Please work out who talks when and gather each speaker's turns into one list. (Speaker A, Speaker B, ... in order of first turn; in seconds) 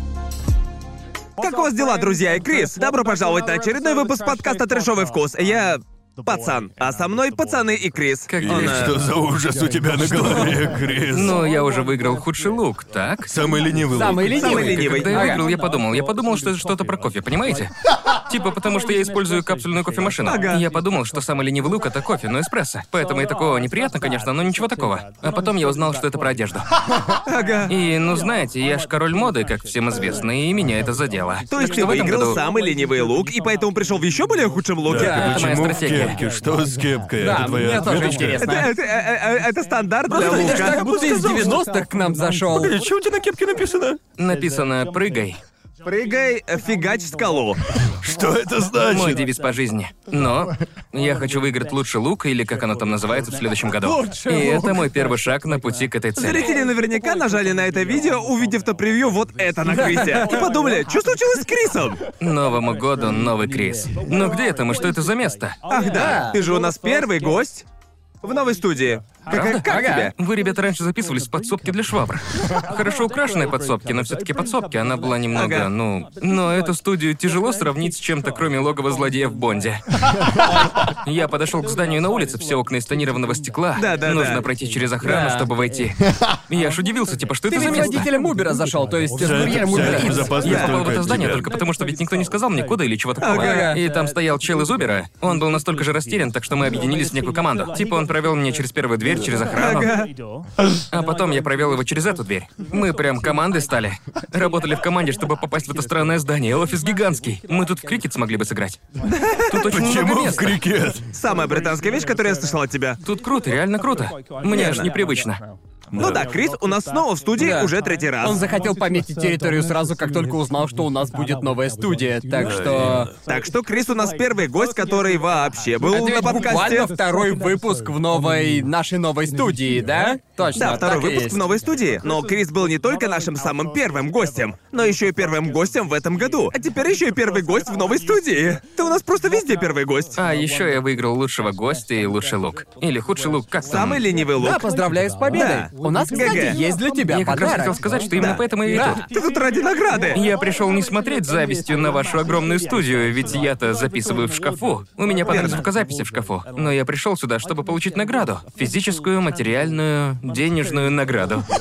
Speaker A: 1.4-8.9, 14.3-15.4, 20.2-20.6, 27.2-27.7, 31.5-35.4, 38.4-41.6, 45.8-47.6, 56.2-62.0, 65.7-67.7, 68.2-70.1, 75.3-75.7, 83.7-84.4, 90.4-90.7, 93.2-93.7, 99.5-100.1, 109.0-109.7, 111.1-113.0, 114.4-114.9, 116.0-118.4, 123.2-126.9, 130.5-140.2, 143.7-144.7, 145.3-146.6, 149.1-150.2, 155.3-155.7
Speaker B: 8.3-8.9, 11.1-13.3, 14.4-17.7, 18.3-26.7, 27.7-32.4, 35.2-36.2, 44.1-45.4, 48.9-56.5, 62.2-65.6, 69.3-79.8, 80.8-88.1, 89.9-100.0, 100.9-108.8, 109.5-110.6, 113.0-115.4, 140.1-144.0, 147.1-149.1, 150.1-161.4
Speaker C: 8.4-11.4, 13.3-14.7, 34.9-38.5, 40.6-41.6, 42.5-44.0, 48.0-49.2, 89.2-91.5, 109.6-111.0, 115.9-116.2, 122.3-123.1
Speaker D: 13.9-15.4, 34.9-35.5, 37.2-38.7, 40.1-42.8, 53.8-54.9, 59.6-60.4, 65.8-66.4, 69.5-70.1, 85.0-85.5, 87.5-90.4, 93.3-93.8, 117.4-123.1, 125.9-131.4, 144.4-147.9, 148.7-149.0